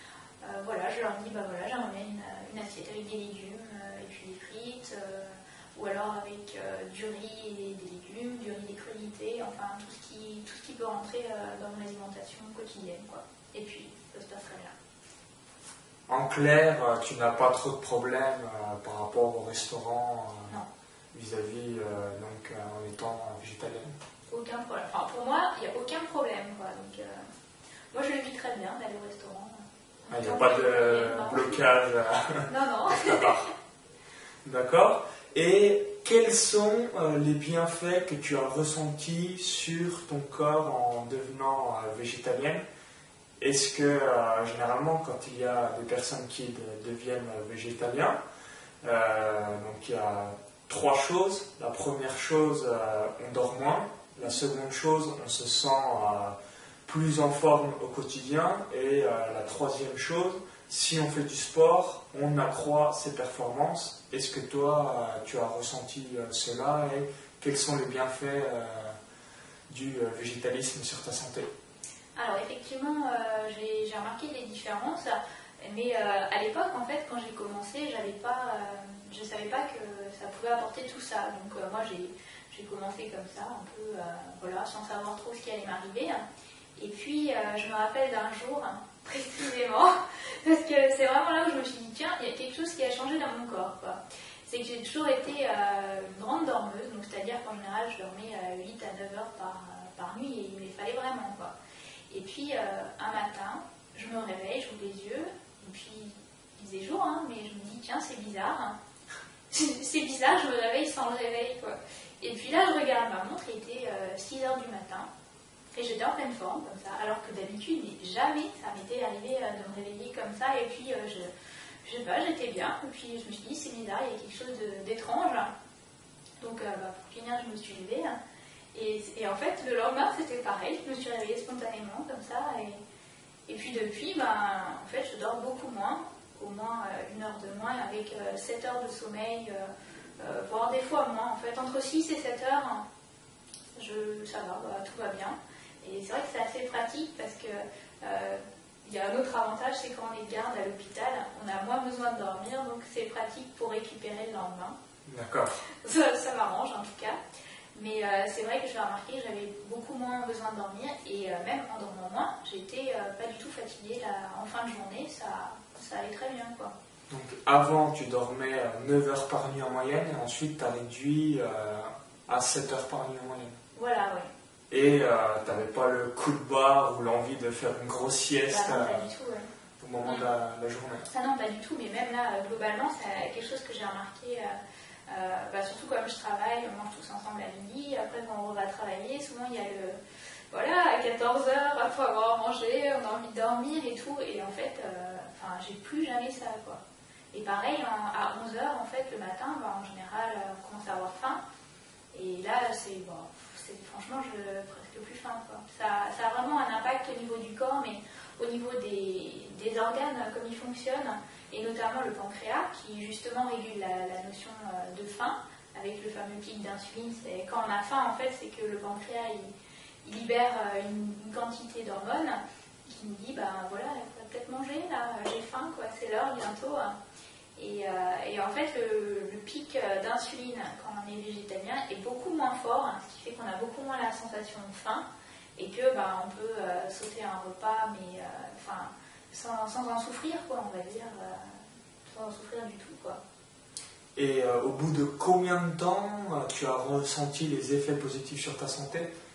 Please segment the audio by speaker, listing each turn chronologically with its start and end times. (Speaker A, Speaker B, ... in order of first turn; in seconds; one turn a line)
Speaker A: 0.4-14.7
Speaker B: 16.1-20.6
Speaker B: 21.1-24.0
Speaker A: 24.3-27.2
Speaker A: 27.9-31.6
Speaker B: 30.1-33.5
Speaker A: 32.5-33.5
Speaker B: 34.5-42.6
Speaker B: 43.4-48.2
Speaker B: 48.8-69.0
Speaker B: 69.7-71.5
Speaker A: 72.2-86.2
Speaker A: 86.8-101.5
Speaker A: 102.1-108.8
Speaker A: 109.5-115.1
Speaker A: 115.7-121.3
Speaker A: 121.8-125.5
Speaker A: 126.4-128.2
Speaker A: 128.7-132.8
Speaker A: 133.5-142.8
Speaker A: 143.8-154.8
Speaker B: 155.1-155.6
Speaker A: 155.7-157.2
Speaker A: 157.7-166.7
Speaker B: 167.1-173.6
Speaker A: 173.8-174.3
Speaker B: 174.7-179.1
Speaker A: 178.5-179.5
Speaker B: 179.8-181.1
Speaker A: 181.1-190.0
Speaker A: 190.5-196.8
Speaker A: 197.3-201.4
Speaker A: 202.1-219.5
Speaker A: 220.0-227.0
Speaker A: 227.6-235.0
Speaker A: 235.6-243.2
Speaker B: 244.2-249.1